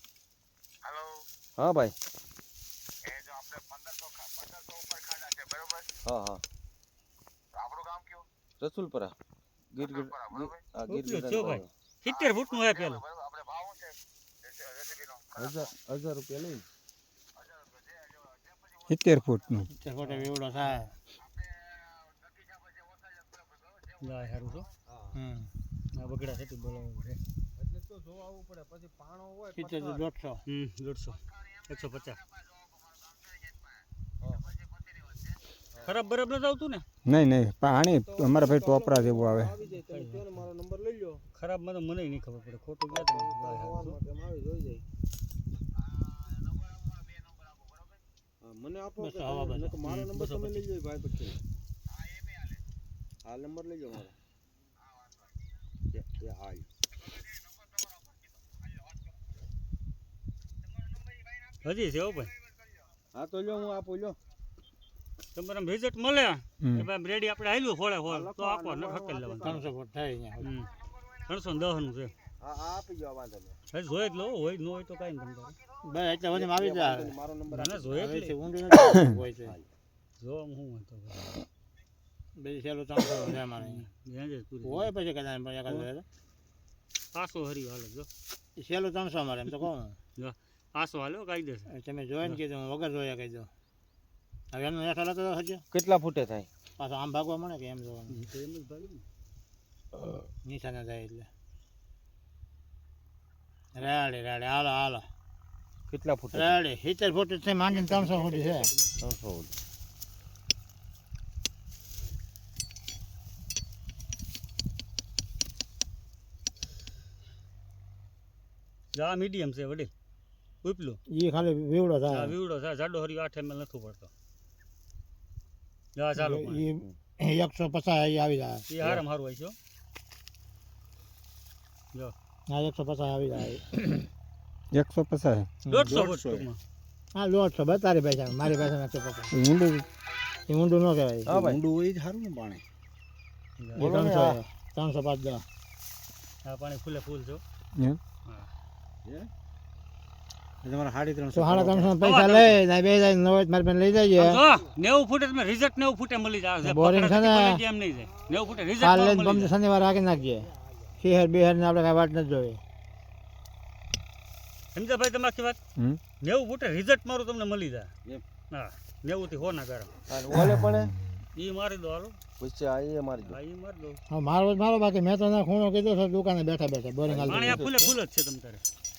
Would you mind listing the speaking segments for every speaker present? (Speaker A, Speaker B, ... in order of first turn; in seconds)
Speaker A: 1.6-1.9, 6.0-6.4, 8.6-9.1, 9.7-11.7, 15.3-16.6, 24.9-25.2, 27.6-30.1, 37.8-41.2, 42.9-44.8, 48.4-51.4, 53.2-54.1, 55.9-56.7, 63.1-64.2, 68.1-69.6, 72.4-73.6, 76.3-78.0, 95.7-96.5, 105.9-106.6, 109.0-109.5, 135.9-136.5, 141.2-142.5, 143.8-144.4, 150.7-151.9, 170.1-170.9, 172.4-173.4, 177.0-177.9
Speaker B: 10.9-13.1, 24.0-24.7, 25.9-27.2, 30.4-32.2, 35.8-36.8, 39.9-40.2, 41.3-44.0, 49.9-50.6, 61.6-62.3, 65.3-69.6, 70.4-70.7, 71.2-72.1, 73.7-75.5, 77.5-78.3, 80.2-81.2, 83.6-84.9, 87.1-88.1, 90.2-91.7, 98.1-99.0, 107.7-108.9, 118.9-119.9, 120.6-121.0, 122.1-124.1, 125.9-126.7, 128.7-129.6, 135.7-136.6, 143.6-143.9, 146.4-147.4, 152.0-152.6, 154.2-159.6, 164.7-165.6, 166.2-167.9, 168.5-169.9, 171.3-172.2, 173.2-174.0, 177.2-178.6
Speaker C: 18.8-19.7, 37.0-39.5, 66.6-66.9, 134.7-135.6, 139.3-139.8, 165.8-166.0, 170.3-170.7
Speaker D: 19.7-20.9, 25.1-25.5, 29.6-30.4, 49.0-49.8, 69.4-70.5, 75.8-77.2, 77.9-79.5, 82.4-83.8, 84.6-86.0, 88.6-90.0, 91.7-93.5, 94.5-95.6, 96.8-98.2, 100.4-101.3, 103.7-105.1, 106.3-108.7, 121.1-122.3, 126.2-128.7, 132.5-134.1, 135.7-136.0, 137.1-139.3, 140.5-141.6, 143.8-145.4, 151.3-154.4, 156.6-157.6, 158.8-162.6, 174.1-177.6